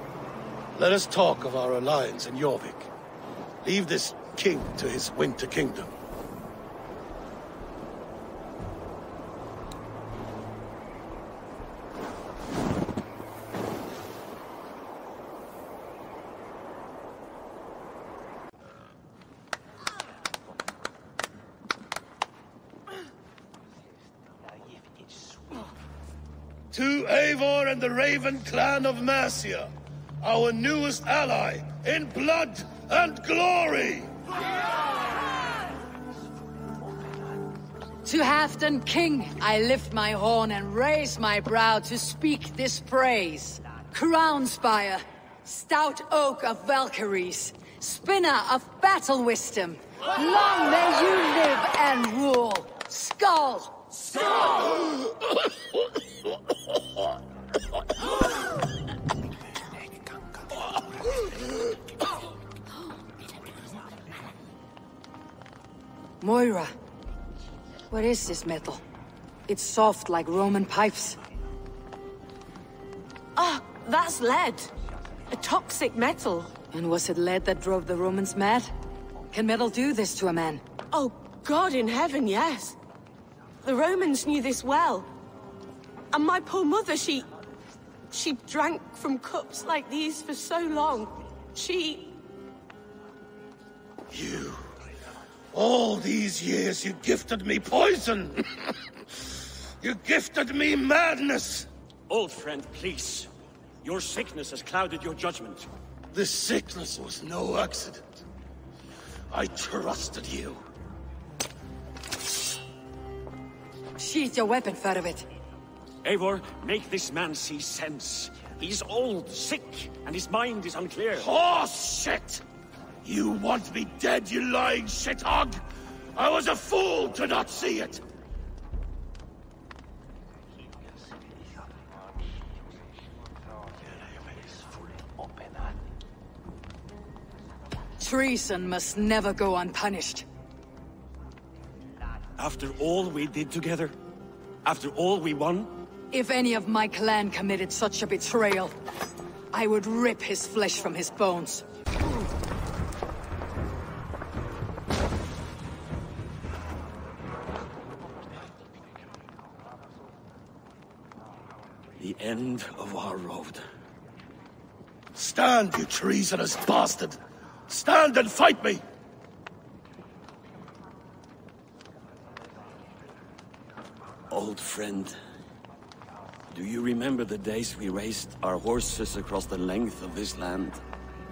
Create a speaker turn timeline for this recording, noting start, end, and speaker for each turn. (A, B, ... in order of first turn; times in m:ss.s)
0:00.7-0:02.9 A
0:03.6-0:05.9 A
0:26.7-0:34.1 A
0:38.0-0:54.2 B
1:06.2-1:06.7 B
1:07.9-1:08.8 B
1:09.5-1:11.2 B
1:13.4-1:14.7 C
1:15.3-1:16.5 C
1:16.7-1:18.7 B
1:19.3-1:20.6 B
1:20.9-1:22.8 C
1:23.6-1:25.1 C
1:26.1-1:27.3 C
1:28.1-1:32.1 C
1:34.1-1:34.6 A
1:35.5-1:38.8 A
1:39.8-1:41.7 A
1:42.1-1:43.3 D
1:43.8-1:45.7 D
1:46.1-1:48.2 A
1:49.3-1:50.6 A
1:54.0-1:55.3 B
1:56.0-2:01.3 D
2:01.2-2:02.4 A
2:03.0-2:05.6 A
2:06.1-2:08.0 A
2:18.0-2:20.2 B
2:22.4-2:23.9 D
2:24.6-2:25.7 D
2:26.1-2:28.7 B
2:29.5-2:31.6 B
2:42.0-2:43.6 D
2:45.1-2:48.8 A
2:54.3-2:55.1 D
2:56.5-3:00.8 D